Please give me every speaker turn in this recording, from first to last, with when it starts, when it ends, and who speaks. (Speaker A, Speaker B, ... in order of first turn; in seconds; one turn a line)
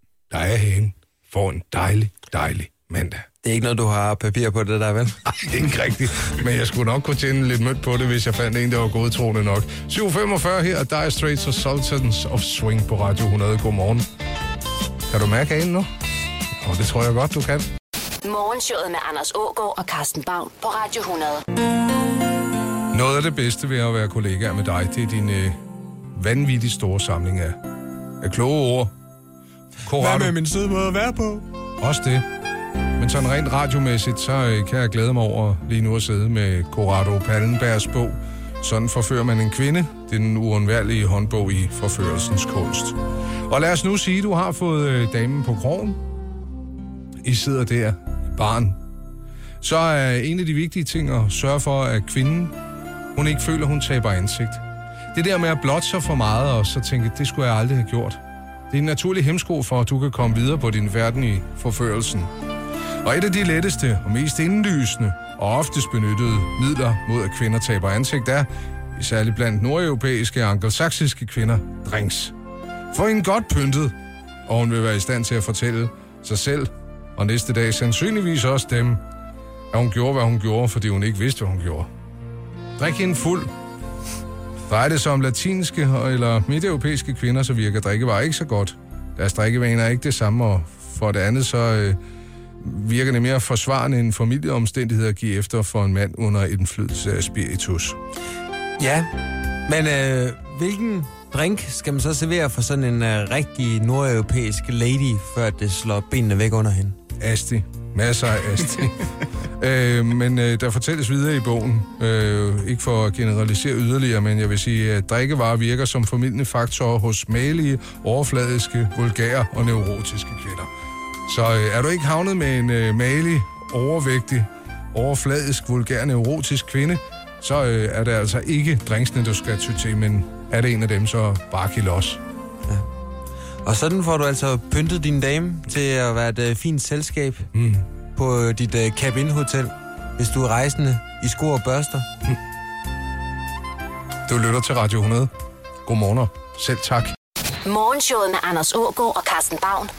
Speaker A: 0.3-3.2
Speaker B: 3.4-5.2
Speaker A: 5.3-14.1
Speaker A: 15.1-15.9
Speaker A: 16.6-17.7
Speaker C: 18.2-21.4
Speaker A: 22.9-25.6
Speaker A: 26.1-27.6
Speaker A: 28.2-28.9
Speaker A: 29.8-30.4
Speaker B: 29.9-31.4
Speaker A: 31.8-32.2
Speaker A: 33.0-46.0
Speaker A: 47.2-48.8
Speaker A: 49.6-52.5
Speaker A: 53.1-54.6
Speaker A: 55.1-58.2
Speaker A: 58.7-62.3
Speaker A: 63.0-72.3
Speaker A: 72.9-73.9
Speaker A: 74.5-79.0
Speaker A: 79.7-81.9
Speaker A: 82.8-83.5
Speaker A: 84.7-92.0
Speaker A: 92.6-98.0
Speaker B: 98.8-99.1
Speaker B: 99.7-107.0
Speaker A: 107.2-120.7
Speaker A: 121.3-132.2
Speaker B: 133.6-137.5
Speaker A: 137.5-137.9
Speaker B: 138.1-142.1
Speaker A: 144.3-145.3
Speaker A: 145.8-147.1
Speaker C: 147.6-149.9